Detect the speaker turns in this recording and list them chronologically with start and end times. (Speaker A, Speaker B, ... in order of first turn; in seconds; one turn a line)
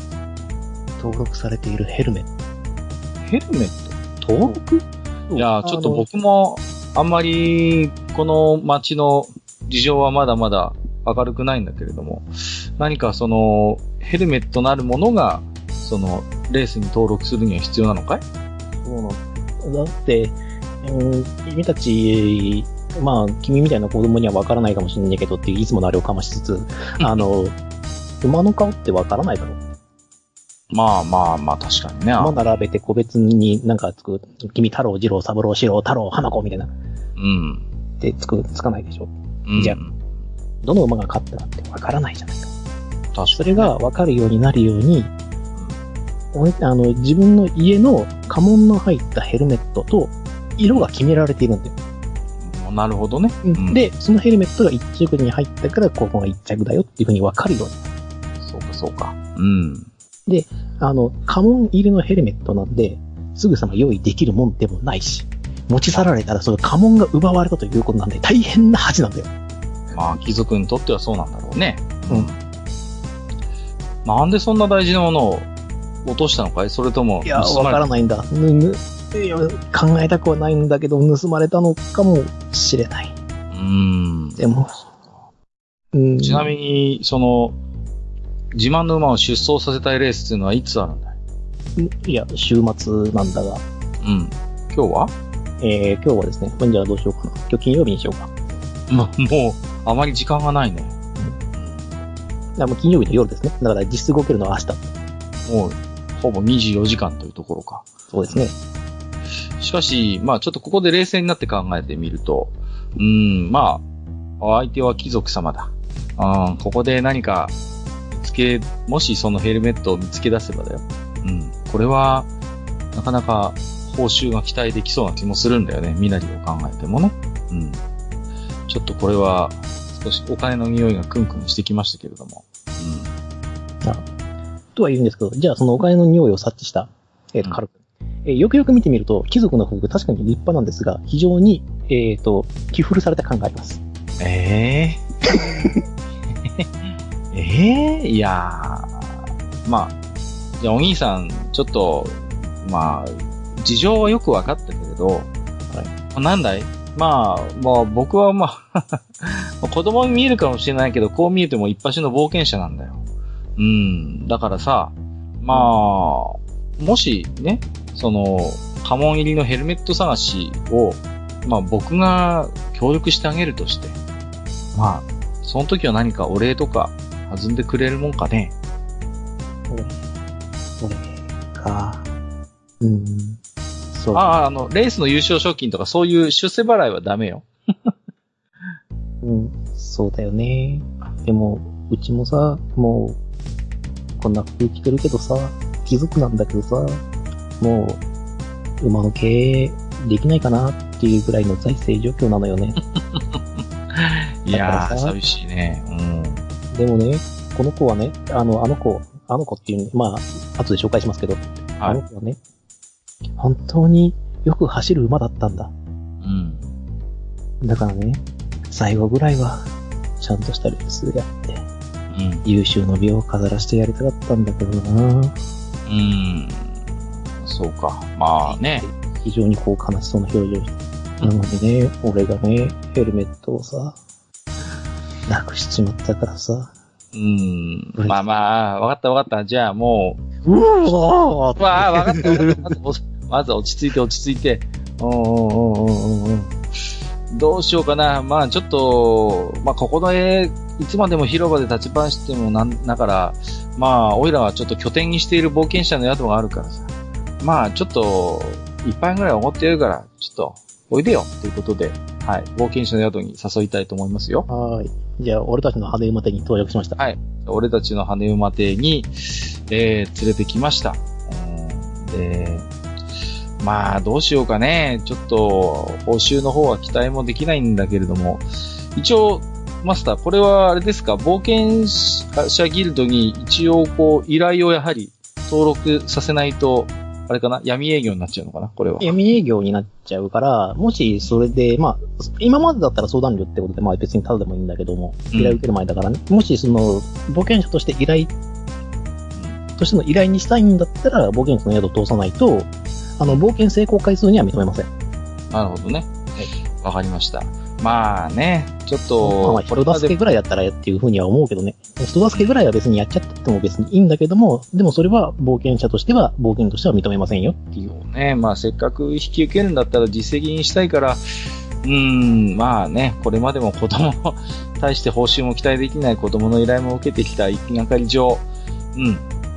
Speaker A: 1.0-2.3
Speaker B: 3.2-4.6
Speaker A: 4.4-6.1
Speaker B: 5.3-18.2
Speaker A: 18.8-27.6
Speaker A: 28.2-29.6
Speaker B: 30.7-32.4
Speaker A: 32.2-36.7
Speaker B: 37.2-37.6
Speaker A: 38.0-39.8
Speaker B: 39.4-39.9
Speaker A: 40.6-42.5
Speaker B: 43.1-43.7
Speaker A: 43.3-45.1
Speaker A: 46.3-51.7
Speaker B: 52.4-53.8
Speaker A: 53.4-57.8
Speaker B: 58.4-59.9
Speaker A: 60.3-69.3
Speaker B: 69.9-72.4
Speaker B: 74.0-75.5
Speaker B: 76.0-77.8
Speaker A: 77.2-83.1
Speaker B: 83.5-84.4
Speaker A: 84.4-84.8
Speaker A: 85.9-86.5
Speaker B: 86.2-87.6
Speaker B: 88.5-91.2
Speaker A: 91.8-93.6
Speaker B: 94.0-95.1
Speaker A: 95.6-98.3
Speaker B: 98.9-100.9
Speaker B: 101.6-101.9
Speaker A: 102.6-104.8
Speaker B: 105.5-108.5
Speaker A: 108.1-108.5
Speaker B: 109.6-113.8
Speaker B: 114.4-117.5
Speaker B: 118.1-122.3
Speaker B: 122.9-127.8
Speaker B: 128.7-133.1
Speaker A: 134.8-137.7
Speaker A: 138.2-143.8
Speaker B: 144.2-145.0
Speaker A: 145.3-145.7
Speaker B: 146.4-149.1
Speaker B: 149.6-149.9
Speaker B: 150.6-155.3
Speaker B: 156.1-163.0
Speaker B: 163.6-174.0
Speaker B: 174.7-178.5
Speaker A: 179.7-180.0
Speaker A: 180.8-182.0
Speaker A: 182.8-183.4
Speaker A: 183.9-184.2
Speaker B: 184.1-187.9
Speaker A: 189.2-193.2
Speaker A: 194.2-197.0
Speaker A: 197.6-198.0
Speaker A: 198.8-202.8
Speaker B: 203.0-206.4
Speaker A: 204.5-205.1
Speaker A: 206.7-212.4
Speaker A: 213.4-215.7
Speaker B: 216.2-216.7
Speaker A: 217.6-219.7
Speaker A: 220.2-221.6
Speaker B: 222.1-222.4
Speaker A: 222.4-225.3
Speaker B: 225.9-226.7
Speaker B: 227.4-228.8
Speaker A: 228.4-234.0
Speaker A: 235.3-236.7
Speaker B: 237.1-240.2
Speaker A: 240.4-242.7
Speaker B: 241.6-246.5
Speaker B: 247.3-264.4
Speaker A: 264.5-267.0
Speaker B: 267.0-272.7
Speaker B: 273.6-289.1
Speaker A: 289.0-298.3
Speaker B: 295.3-295.6
Speaker A: 299.8-304.9
Speaker B: 305.5-306.1
Speaker B: 306.8-310.1
Speaker A: 309.2-317.9
Speaker B: 317.9-321.2
Speaker B: 321.8-329.2